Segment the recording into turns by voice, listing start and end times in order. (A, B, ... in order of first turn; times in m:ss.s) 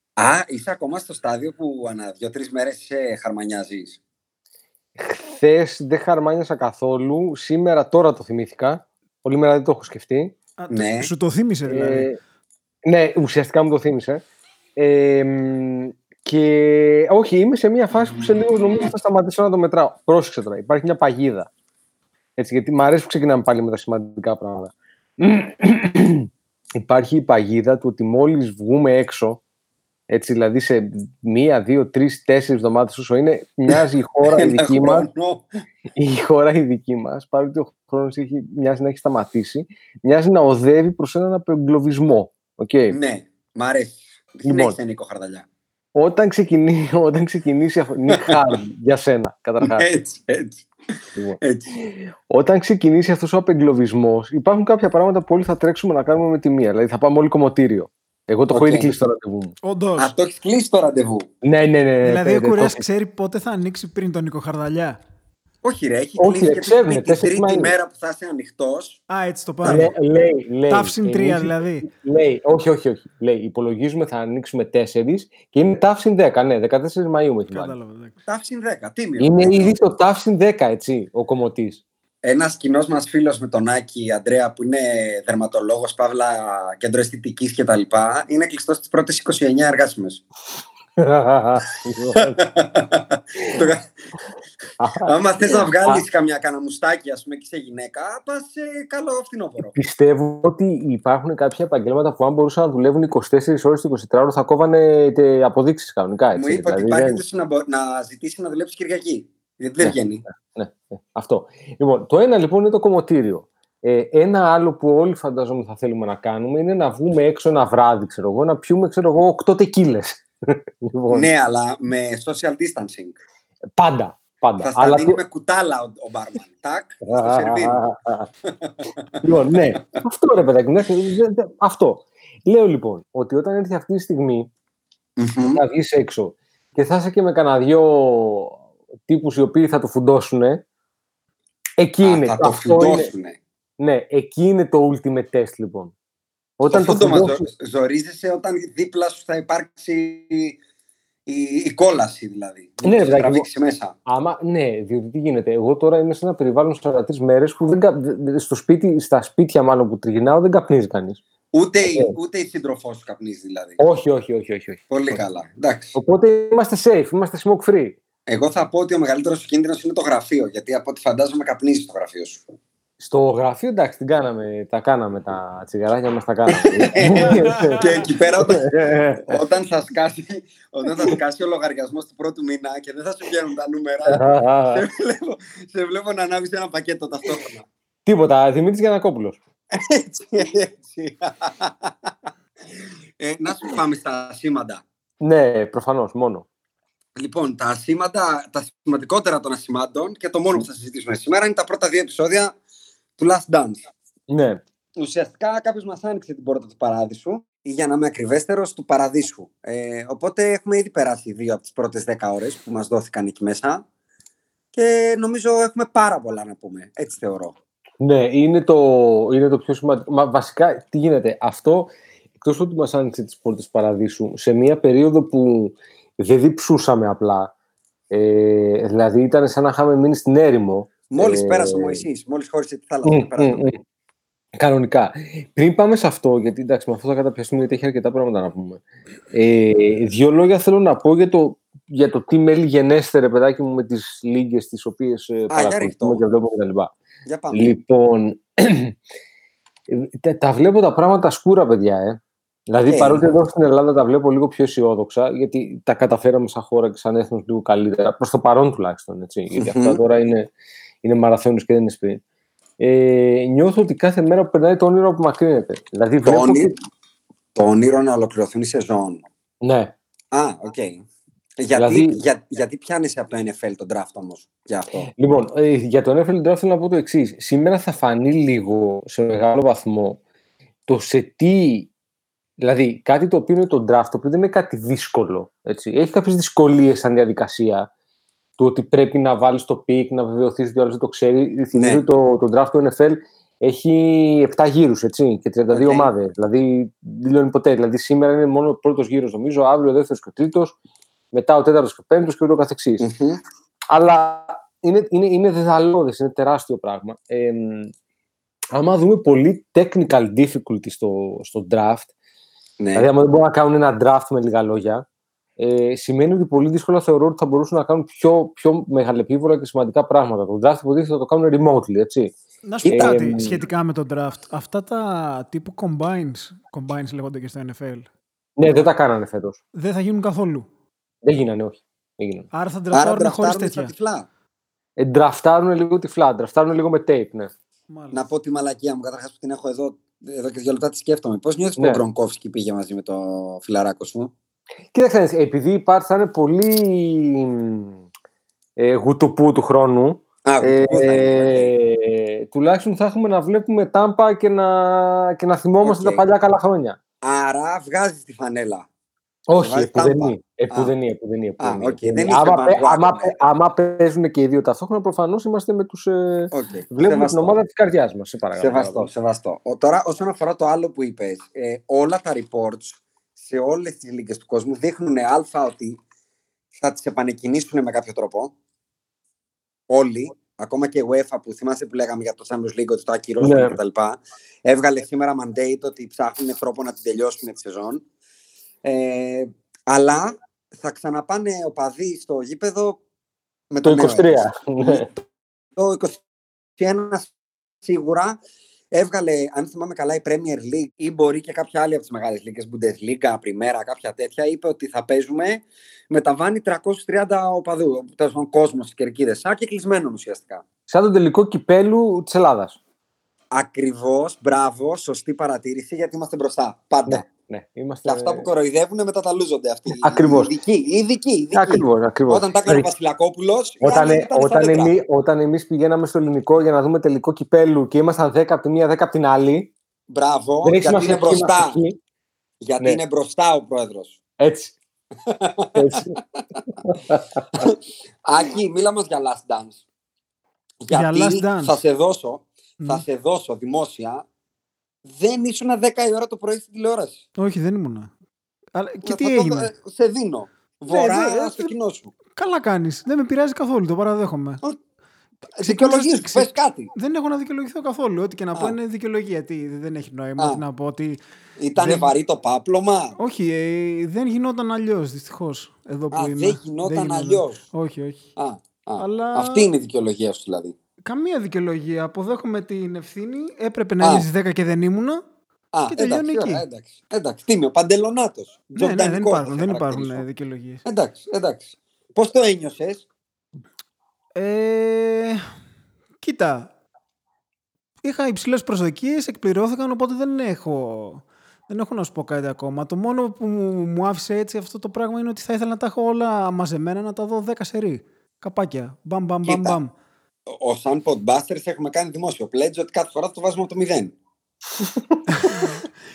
0:00.2-0:04.0 A
0:05.0-0:10.4 B
0:10.6-0:12.1 C
0:10.7-0:11.1 A
0:11.7-0:12.2 B
0:12.8-0:14.2 B
0:14.8-0:21.5 B
0:22.4-0:29.4 B
0:30.1-0:35.1 B
0:33.7-0:35.4 A
0:36.0-0:43.0 B
0:42.9-0:45.4 A
0:44.4-0:44.8 B
0:46.0-0:49.8 B
0:49.6-0:50.6 A
0:51.2-0:59.5 B
0:51.4-0:51.7 A
0:58.5-0:58.9 A
0:59.6-1:00.1 C
1:00.0-1:01.3 A
1:01.4-1:02.8 B
1:02.0-1:05.0 C
1:05.6-1:09.0 A
1:06.2-1:07.7 B
1:09.1-1:09.9 C
1:09.6-1:09.9 A
1:09.6-1:17.7 B
1:10.7-1:11.9 C
1:17.5-1:18.2 C
1:18.3-1:19.8 A
1:19.2-1:21.8 B
1:22.2-1:30.2 A
1:31.0-1:32.4 B
1:32.2-1:33.9 A
1:34.8-1:36.0 B
1:35.0-1:39.8 A
1:39.7-1:47.2 B
1:46.4-1:50.2 A
1:49.8-2:01.3 B
2:01.1-2:03.1 A
2:03.8-2:05.2 B
2:04.6-2:07.8 A
2:07.0-2:08.3 B
2:08.4-2:08.8 A
2:09.2-2:14.5 B
2:15.2-2:15.6 A
2:15.5-2:20.6 B
2:21.8-2:23.1 B
2:22.0-2:23.4 A
2:23.8-2:25.9 B
2:26.6-2:27.5 B
2:26.7-2:30.6 A
2:31.3-2:34.0 A
2:32.8-2:33.4 B
2:34.1-2:41.2 B
2:41.5-2:43.8 A
2:41.8-2:42.1 B
2:43.8-2:45.2 B
2:44.9-2:45.9 A
2:45.9-2:48.0 B
2:48.3-2:52.4 A
2:53.0-2:59.4 B
2:56.5-3:07.6 A
2:57.4-2:57.7 C
3:04.1-3:04.8 B
3:08.0-3:09.4 B
3:09.7-3:12.1 A
3:13.2-3:14.8 A
3:15.2-3:16.4 B
3:17.2-3:22.6 A
3:23.2-3:23.8 A
3:24.3-3:24.6 B
3:25.0-3:33.8 A
3:34.7-3:37.5 A
3:38.0-3:47.5 B
3:48.1-3:52.0 B
3:51.1-3:53.7 A
3:53.0-3:53.8 B
3:54.6-4:06.9 B
4:05.5-4:06.2 A
4:07.2-4:07.8 A
4:07.5-4:09.0 B
4:09.9-4:20.5 B
4:12.9-4:13.2 A
4:19.5-4:20.0 A
4:21.0-4:22.2 B
4:22.8-4:26.8 B
4:26.2-4:26.7 A
4:27.5-4:29.2 A
4:29.6-4:29.9 B
4:30.3-4:31.0 A
4:31.6-4:35.1 A
4:31.7-4:32.2 B
4:35.2-4:40.2 B
4:40.9-4:41.9 B
4:42.6-4:47.9 B
4:48.6-5:00.8 B
4:51.7-4:52.0 A
4:55.7-4:56.1 A
5:01.3-5:03.0 B
5:03.0-5:03.4 A
5:03.9-5:07.9 B
5:08.7-5:12.1 B
5:12.8-5:13.1 A
5:12.9-5:15.0 B
5:15.6-5:22.3 B
5:22.6-5:28.1 C
5:22.8-5:23.6 B
5:28.6-5:29.6 B
5:29.7-5:30.7 C
5:31.2-5:32.5 B
5:32.5-5:33.9 C
5:32.9-5:34.3 A
5:35.0-5:37.5 B
5:37.9-5:38.2 C
5:38.1-5:44.3 A
5:41.8-5:42.0 B
5:44.9-5:48.0 B
5:48.8-5:57.0 B
5:50.4-5:51.7 A
5:55.8-5:56.2 A
5:57.2-5:58.9 A
5:59.5-6:09.1 B
5:59.6-6:00.9 A
6:01.6-6:03.4 A
6:06.5-6:07.6 A
6:08.6-6:16.0 A
6:16.7-6:18.5 A
6:19.9-6:28.0 A
6:23.4-6:23.8 B
6:28.8-6:33.0 A
6:33.7-6:36.2 A
6:33.8-6:35.1 B
6:36.8-6:37.3 A
6:37.8-6:38.4 A
6:38.9-6:50.6 A
6:50.9-6:52.8 B
6:53.5-6:57.2 A
6:57.0-6:58.5 B
6:58.0-7:04.9 A
6:59.9-7:00.5 B
7:01.5-7:02.9 B
7:03.8-7:09.7 B
7:10.1-7:11.8 A
7:10.6-7:12.0 B
7:12.6-7:14.2 A
7:14.4-7:14.8 B
7:15.2-7:16.0 A
7:15.7-7:16.2 B
7:16.7-7:17.6 B
7:17.6-7:19.8 A
7:20.8-7:24.2 A
7:20.9-7:21.7 C
7:22.8-7:23.0 C
7:25.0-7:27.2 A
7:27.4-7:28.1 C
7:28.7-7:29.7 C
7:29.0-7:32.1 A
7:30.9-7:31.7 C
7:32.4-7:34.6 C
7:35.5-7:41.2 C
7:35.6-7:36.9 A
7:41.6-7:43.2 A
7:41.8-7:42.1 C
7:43.2-7:48.2 C
7:46.1-7:47.6 A
7:48.4-7:50.7 A
7:49.0-7:49.7 C
7:51.0-7:55.2 C
7:54.0-7:54.2 A
7:55.7-8:00.2 A
7:55.9-7:56.6 C
7:58.8-8:00.8 C
8:00.8-8:03.0 A
8:04.3-8:05.4 C
8:06.2-8:06.7 C
8:08.0-8:19.9 C
8:19.4-8:19.8 A
8:20.5-8:24.1 A
8:25.5-8:25.8 C